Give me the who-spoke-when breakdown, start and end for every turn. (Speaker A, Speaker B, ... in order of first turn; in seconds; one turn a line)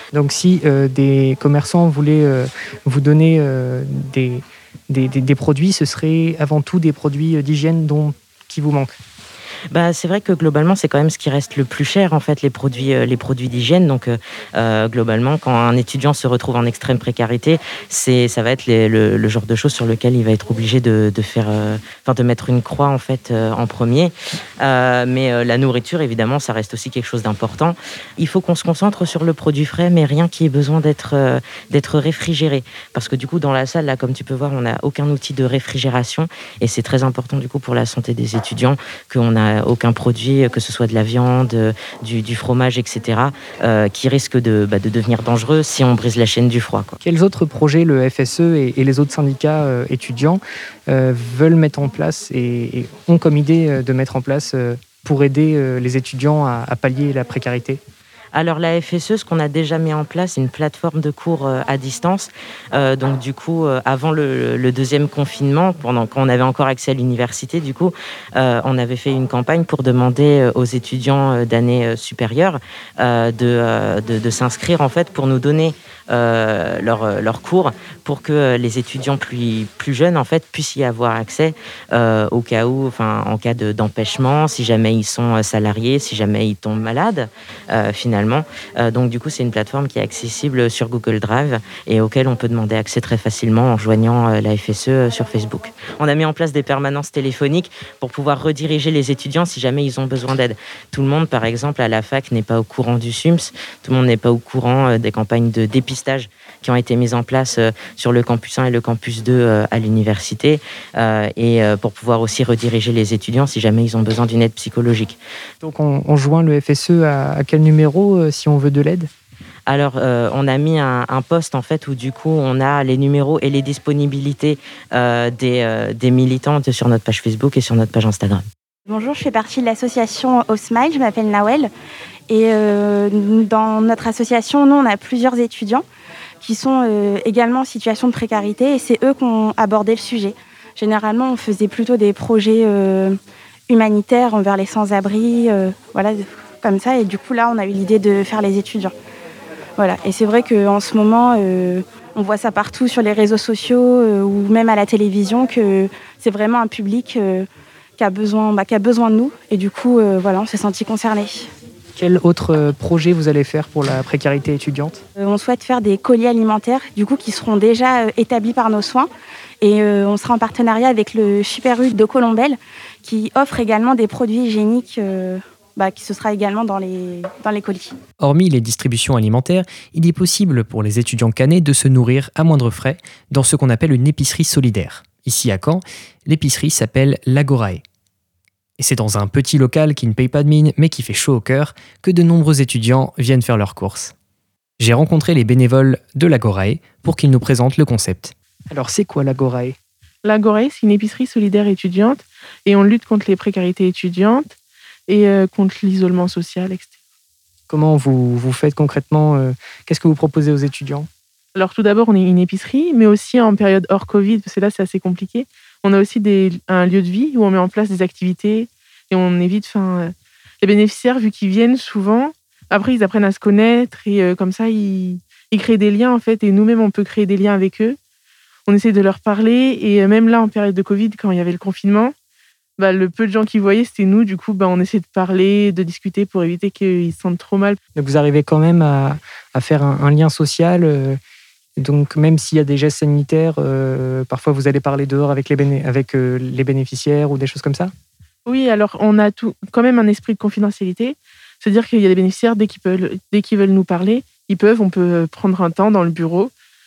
Speaker A: 0.1-8.9
Speaker B: 9.7-47.0
Speaker A: 47.0-57.8
Speaker B: 58.3-115.2
Speaker A: 115.6-119.1
Speaker B: 119.7-128.4
Speaker C: 128.8-131.7
Speaker C: 132.3-135.8
Speaker C: 136.4-148.9
Speaker C: 149.8-161.5
Speaker A: 161.9-165.0
Speaker C: 165.2-169.1
Speaker C: 169.6-178.0
Speaker A: 178.2-187.8
Speaker A: 188.8-194.1
Speaker A: 194.8-199.8
Speaker D: 200.2-204.5
Speaker D: 205.1-206.9
Speaker A: 207.7-211.1
Speaker D: 211.5-228.0
Speaker D: 228.7-232.1
Speaker D: 232.8-237.8
Speaker A: 237.9-241.2
Speaker A: 241.8-247.9
Speaker D: 248.4-256.5